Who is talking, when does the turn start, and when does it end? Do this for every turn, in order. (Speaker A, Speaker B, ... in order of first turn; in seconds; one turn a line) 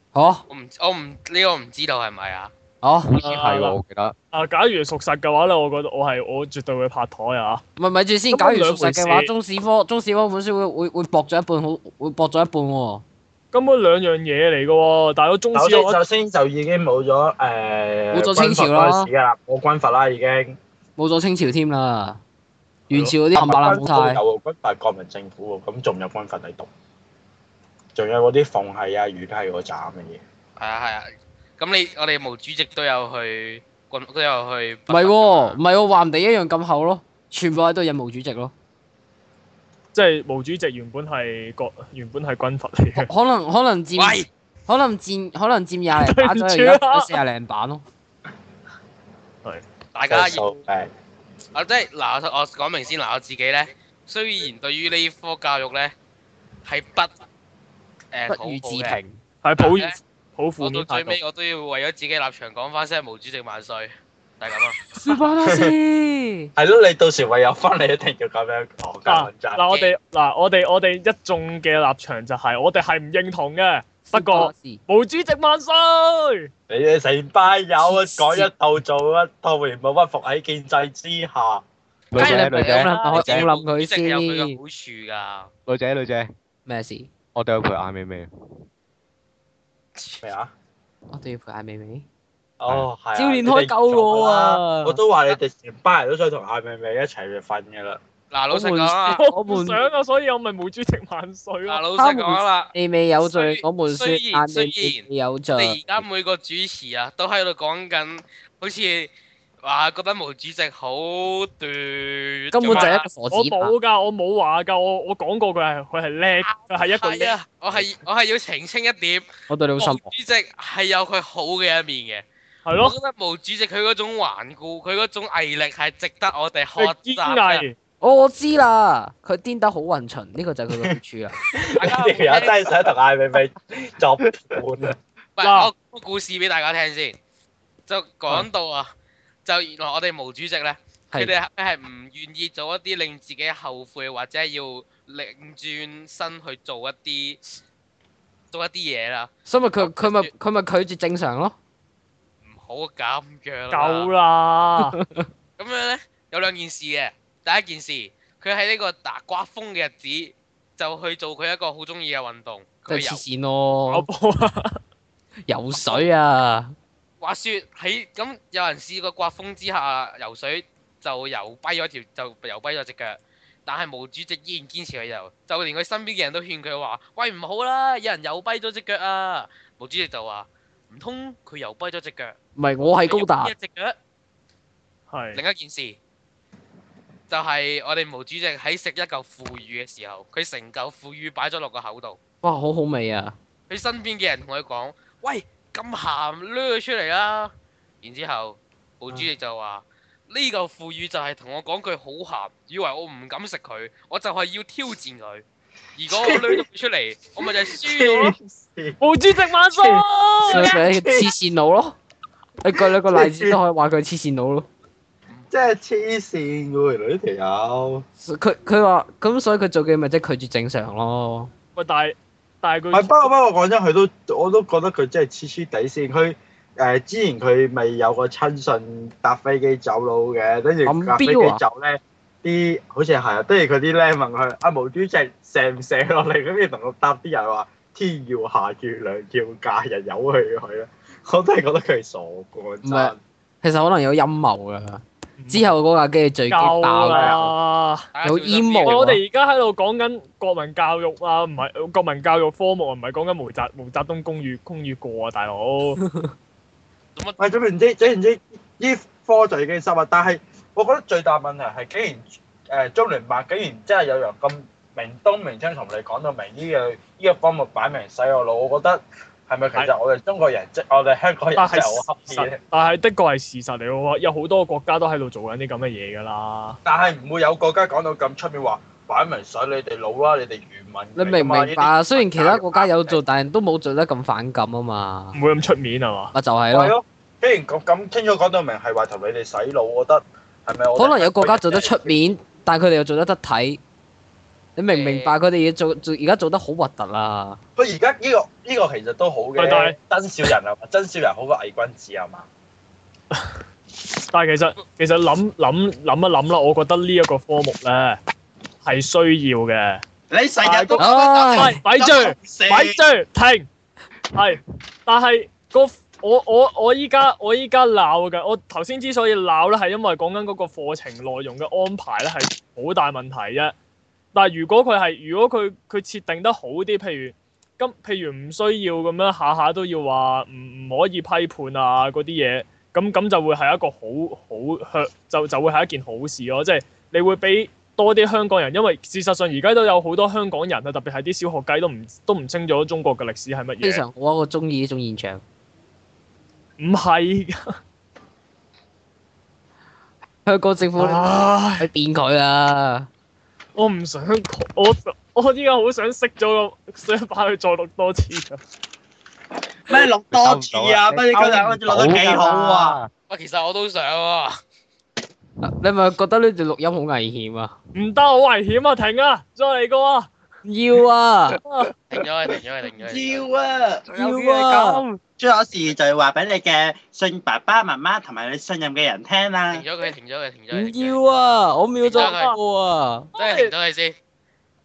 Speaker A: 0.1-0.4
Speaker B: 0.5-2.5
Speaker A: 2.8-3.2
Speaker C: 3.0-4.2
Speaker D: 3.2-3.8
Speaker D: 4.3-7.6
Speaker A: 7.8-13.0
Speaker D: 8.3-9.3
Speaker D: 13.5-16.0
Speaker E: 15.5-20.6
Speaker A: 18.1-19.1
Speaker A: 21.0-22.2
Speaker D: 22.9-23.2
Speaker A: 22.9-24.2
Speaker E: 23.3-26.7
Speaker E: 27.9-30.2
Speaker B: 30.6-35.6
Speaker A: 34.9-38.5
Speaker D: 39.9-43.1
Speaker A: 43.0-47.8
Speaker B: 44.0-44.3
Speaker D: 45.9-47.2
Speaker B: 49.9-50.6
Speaker E: 50.1-50.9
Speaker B: 51.5-55.9
Speaker B: 56.6-57.1
Speaker B: 58.1-59.0
Speaker A: 58.3-59.2
Speaker D: 59.4-61.2
Speaker B: 59.6-60.0
Speaker B: 60.6-64.8
Speaker A: 64.9-66.5
Speaker E: 65.4-65.7
Speaker E: 66.5-69.6
Speaker D: 69.1-76.5
Speaker A: 74.1-74.8
Speaker E: 76.7-81.6
Speaker A: 77.8-78.5
Speaker C: 82.1-83.5
Speaker A: 82.1-84.6
Speaker B: 82.2-85.5
Speaker C: 85.7-86.3
Speaker A: 86.7-87.1
Speaker C: 87.3-88.3
Speaker B: 90.0-90.3
Speaker E: 90.2-90.5
Speaker A: 91.1-92.0
Speaker E: 92.6-98.0
Speaker A: 93.1-95.0
Speaker B: 98.3-99.2
Speaker A: 98.5-99.8
Speaker D: 99.1-101.9
Speaker B: 101.7-113.1
Speaker A: 102.0-106.0
Speaker A: 112.5-113.7
Speaker D: 112.6-117.4
Speaker B: 116.4-119.3
Speaker A: 119.5-120.1
Speaker B: 119.8-122.2
Speaker D: 122.6-122.9
Speaker B: 122.8-127.6
Speaker D: 126.8-127.8
Speaker A: 128.0-131.4
Speaker E: 131.4-134.9
Speaker B: 131.8-132.8
Speaker B: 135.3-137.2
Speaker D: 135.4-135.7
Speaker B: 137.9-138.9
Speaker B: 139.4-147.4
Speaker B: 148.5-150.3
Speaker A: 149.4-151.6
Speaker B: 152.4-154.1
Speaker D: 153.7-154.9
Speaker A: 154.8-155.3
Speaker B: 155.6-163.2
Speaker A: 162.9-164.1
Speaker D: 163.9-164.7
Speaker A: 165.5-166.7
Speaker B: 165.8-166.1
Speaker B: 167.2-182.3
Speaker A: 182.6-183.5
Speaker B: 183.0-183.9
Speaker D: 185.1-185.4
Speaker B: 185.3-186.0
Speaker B: 187.3-192.2
Speaker A: 192.4-193.3
Speaker B: 193.7-205.4
Speaker B: 205.9-208.2
Speaker E: 206.1-206.7
Speaker E: 207.7-209.0
Speaker D: 209.0-210.7
Speaker E: 209.8-211.3
Speaker A: 210.4-211.9
Speaker A: 212.6-214.7
Speaker E: 212.7-213.6
Speaker E: 215.5-218.0
Speaker A: 218.2-221.5
Speaker D: 221.8-223.3
Speaker E: 222.9-243.2
Speaker A: 230.8-231.6
Speaker A: 242.8-247.5
Speaker D: 245.4-245.7
Speaker D: 246.5-248.0
Speaker E: 247.0-247.4
Speaker B: 248.1-249.1
Speaker A: 248.2-249.2
Speaker D: 248.8-256.0
Speaker A: 256.0-256.3
Speaker B: 257.1-257.4
Speaker E: 257.4-272.6
Speaker D: 271.5-276.8
Speaker E: 276.8-283.2
Speaker A: 281.1-285.4
Speaker D: 285.3-286.3
Speaker A: 286.3-286.9
Speaker E: 286.7-292.3
Speaker A: 290.9-293.8
Speaker A: 294.8-297.6
Speaker B: 294.9-295.4
Speaker E: 297.8-302.4
Speaker D: 299.6-299.9
Speaker D: 304.3-308.2
Speaker D: 308.8-310.0
Speaker E: 310.3-313.0
Speaker D: 310.6-313.7
Speaker A: 311.0-311.8
Speaker D: 314.3-323.7
Speaker D: 324.3-344.0
Speaker A: 343.8-345.4
Speaker D: 346.8-347.6
Speaker A: 350.4-353.1
Speaker D: 351.0-351.9
Speaker D: 353.8-358.6
Speaker E: 359.9-363.0
Speaker C: 360.3-363.1
Speaker B: 363.3-364.6
Speaker A: 365.6-367.7
Speaker D: 367.9-370.3
Speaker A: 370.6-371.6
Speaker D: 371.6-371.9
Speaker B: 372.1-373.4
Speaker E: 373.0-379.8
Speaker A: 374.1-375.2
Speaker B: 379.7-381.2
Speaker A: 380.7-383.3
Speaker B: 382.0-382.5
Speaker D: 382.1-382.6
Speaker D: 383.3-383.7
Speaker B: 383.3-384.2